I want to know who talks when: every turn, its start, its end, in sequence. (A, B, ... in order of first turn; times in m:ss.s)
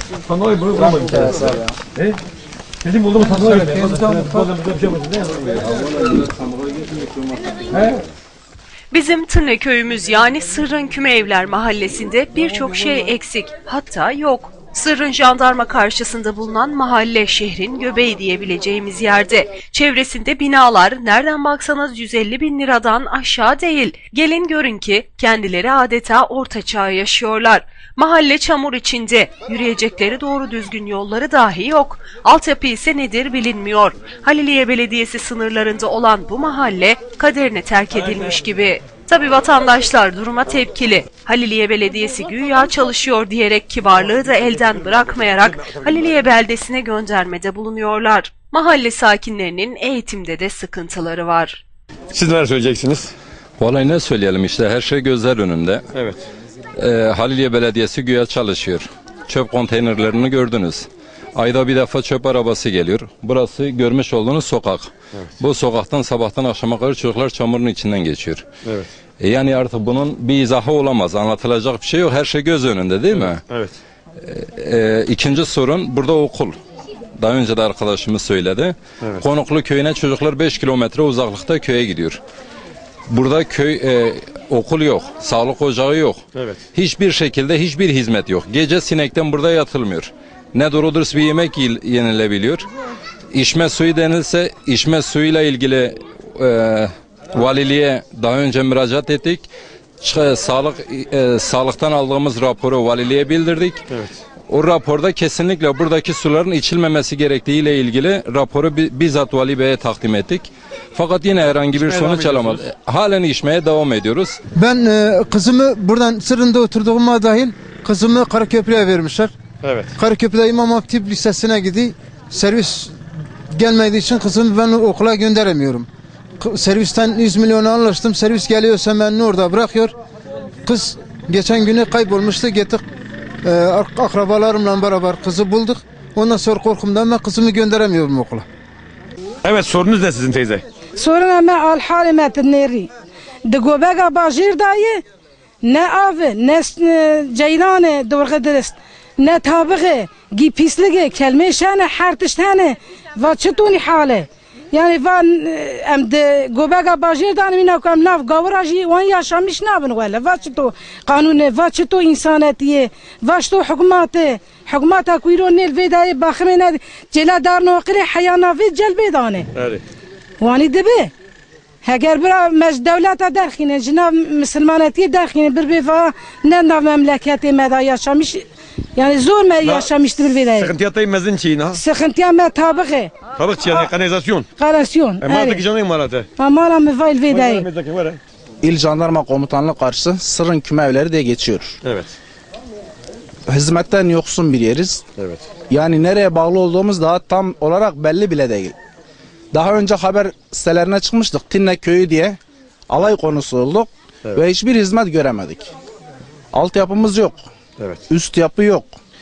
0:00.3-0:02.2 A
0:02.8-0:05.7 A
0:05.8-0:07.6 B
0:08.9-0:51.6 C
0:44.9-0:46.1 A
0:52.1-0:53.1 A
0:53.6-0:55.8 B
0:55.9-0:56.2 A
0:56.8-1:08.5 B
1:08.6-1:08.9 A
1:09.2-1:13.4 B
1:13.1-1:13.7 A
1:14.2-1:16.5 B
1:17.2-1:22.2 B
1:23.1-1:26.2 B
1:26.3-1:26.6 A
1:26.7-1:32.7 B
1:33.3-1:39.5 B
1:40.0-1:43.8 B
1:44.5-1:54.4 B
1:51.8-1:52.6 A
1:54.5-1:59.3 D
1:59.6-2:00.0 A
2:00.0-2:03.0 D
2:03.5-2:05.9 D
2:06.4-2:09.9 D
2:10.6-2:12.8 D
2:13.4-2:18.4 D
2:19.4-2:20.6 A
2:21.0-2:22.9 E
2:23.4-2:25.0 E
2:25.6-2:49.5 E
2:49.5-2:49.8 A
2:50.4-2:51.1 E
2:51.8-2:58.4 E
2:58.9-3:00.7 E
2:59.6-3:01.8 A
3:01.7-3:03.1 E
3:03.4-3:04.5 A
3:03.6-3:03.9 E
3:04.6-3:05.6 E
3:05.2-3:06.3 A
3:06.4-3:07.7 E
3:07.3-3:08.2 A
3:08.6-3:11.8 F
3:11.8-3:12.1 A
3:13.5-3:15.0 F
3:15.2-3:15.4 A
3:15.7-3:18.7 F
3:19.5-3:25.7 F
3:26.5-3:27.4 F
3:28.1-3:28.9 F